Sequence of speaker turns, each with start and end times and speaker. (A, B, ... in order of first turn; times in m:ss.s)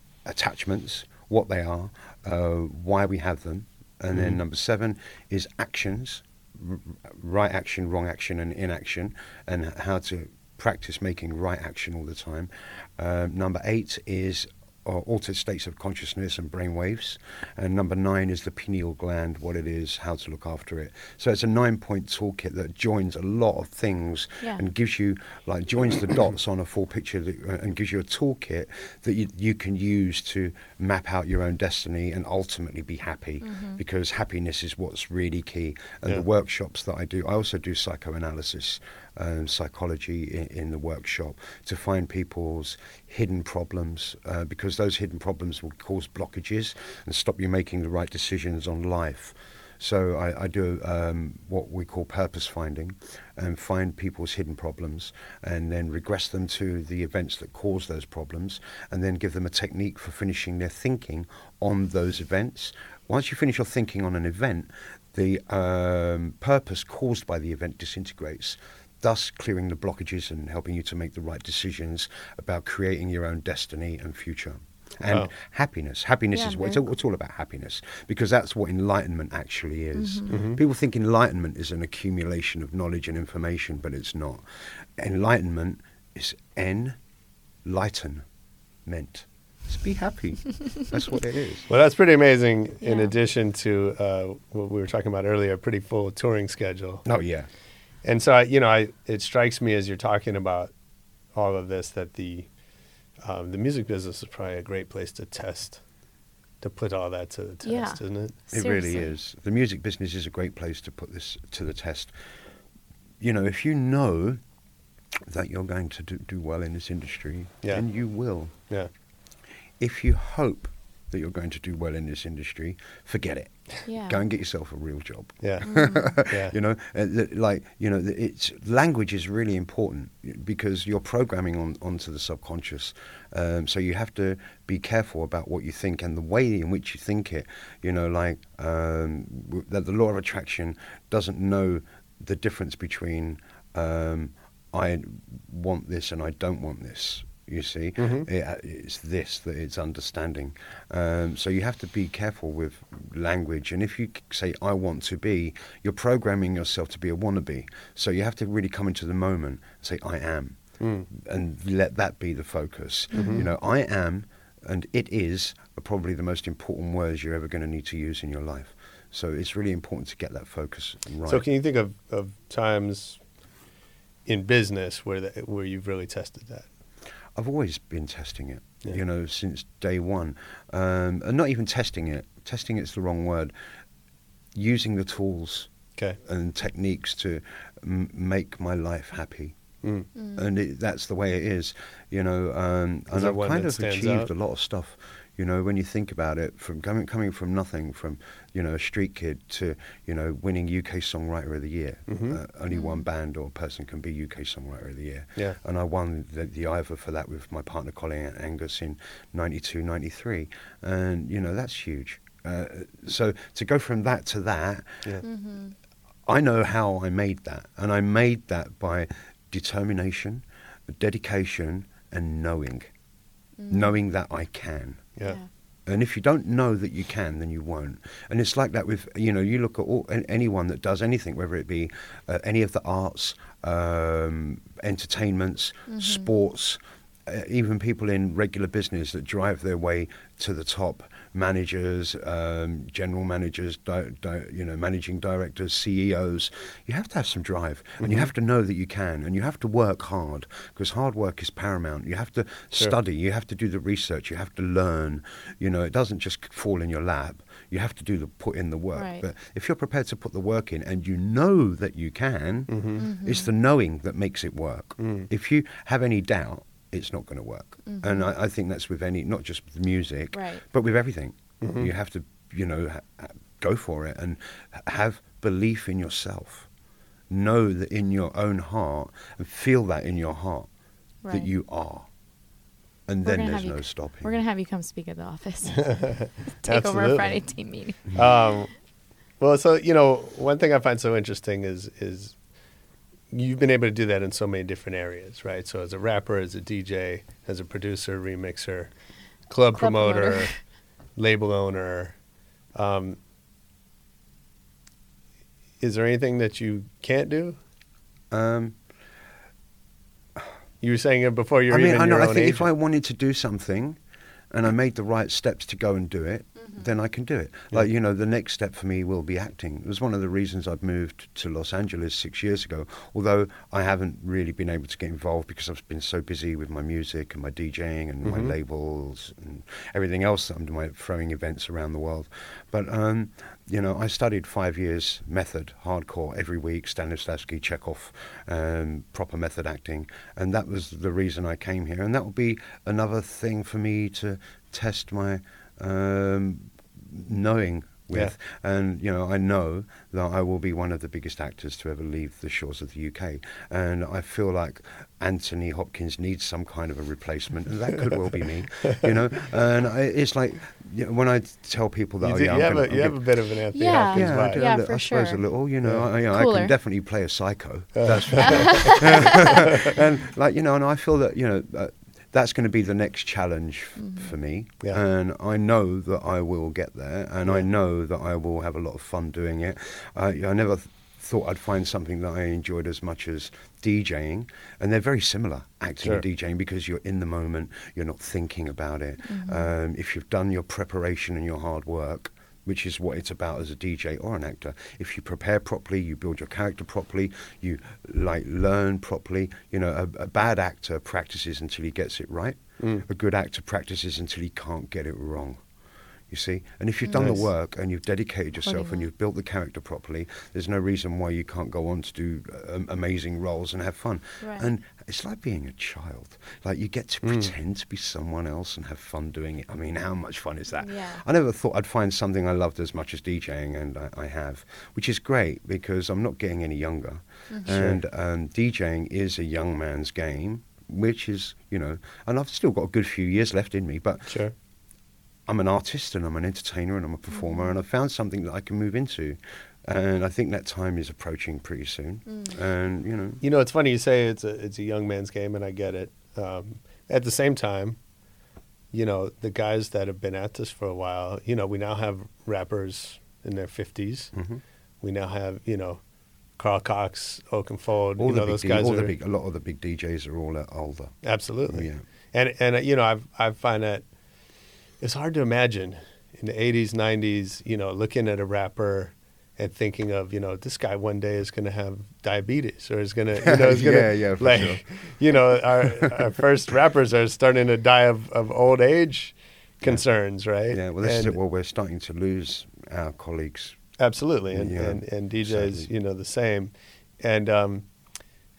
0:00.2-1:27.0 A
0:04.1-0:04.4 B
0:33.4-0:33.8 C
1:16.3-1:16.8 C
1:19.9-1:20.3 C
1:20.3-1:20.6 B
1:27.6-1:28.2 A
1:28.8-1:31.7 A
1:31.7-1:37.0 B
1:32.8-1:33.2 C
1:37.0-1:37.5 A
1:38.0-1:40.7 B
1:41.3-1:42.6 B
1:43.2-1:45.8 B
1:46.6-1:48.4 B
1:47.6-1:49.1 C
1:48.5-1:52.2 A
1:53.2-1:54.4 A
1:55.2-1:58.8 A
1:59.8-2:51.5 A
2:03.8-2:04.2 C
2:05.4-2:06.5 B
2:05.7-2:06.1 C
2:28.0-2:28.3 B
2:40.8-2:41.1 B
2:43.1-2:43.4 C
2:43.1-2:43.4 B
2:51.3-2:53.2 B
2:54.2-2:56.7 B
2:57.3-3:03.5 A
3:04.5-3:05.7 A
3:06.2-3:09.6 A
3:09.8-3:10.1 B
3:10.1-3:10.4 C
3:10.3-3:35.2 A
3:13.1-3:14.3 B
3:22.1-3:22.4 B
3:22.7-3:23.0 C
3:35.2-3:35.8 C
3:36.2-3:42.9 A
3:43.6-3:44.0 C
3:43.7-3:45.1 A
3:45.2-3:45.5 C
3:45.9-4:36.7 A
3:55.9-3:56.3 C
4:08.0-4:08.3 B
4:18.9-4:19.2 C
4:22.7-4:23.1 B
4:23.0-4:23.5 C
4:25.0-4:25.3 B
4:27.8-4:28.3 C
4:30.3-4:30.6 C
4:31.6-4:31.9 B
4:37.3-4:40.7 A
4:41.2-4:41.5 C
4:41.3-4:42.1 A
4:43.1-4:44.4 A
4:43.2-4:48.3 C
4:45.9-4:48.8 B
4:49.4-4:52.5 B
4:53.3-4:58.9 B
4:59.5-5:02.2 B
4:59.7-5:00.6 C
5:02.7-5:03.2 B
5:05.8-5:07.6 B
5:08.3-5:08.8 A
5:10.8-5:12.6 B
5:11.7-5:14.0 A
5:14.5-6:03.4 A
5:16.6-5:16.9 C
5:28.2-5:28.5 B
6:02.2-6:04.6 B
6:03.7-6:05.4 C
6:04.0-6:45.6 A
6:05.8-6:06.1 B
6:06.2-6:06.7 C
6:08.0-6:09.0 B
6:08.4-6:09.4 C
6:14.0-6:14.3 C
6:29.2-6:29.7 C
6:42.8-6:43.0 B
6:46.3-7:14.4 A
6:47.0-6:47.4 C
6:47.1-6:47.4 B
6:48.6-6:49.1 C
6:54.4-6:54.7 C
6:57.2-6:57.5 B
7:00.8-7:01.2 C
7:07.5-7:07.8 C
7:07.6-7:08.0 B
7:14.3-7:14.5 B
7:15.5-7:23.4 A
7:17.3-7:17.7 C
7:22.3-7:22.6 C
7:23.4-7:28.0 B
7:28.9-7:34.3 B
7:34.3-7:34.6 A
7:35.0-7:36.0 B
7:36.5-7:39.1 B
7:38.2-7:42.0 A
7:41.2-7:44.1 B
7:45.0-8:01.4 B
7:53.5-7:55.3 A
8:00.7-8:03.9 A
8:04.0-8:07.9 B
8:04.5-8:05.9 A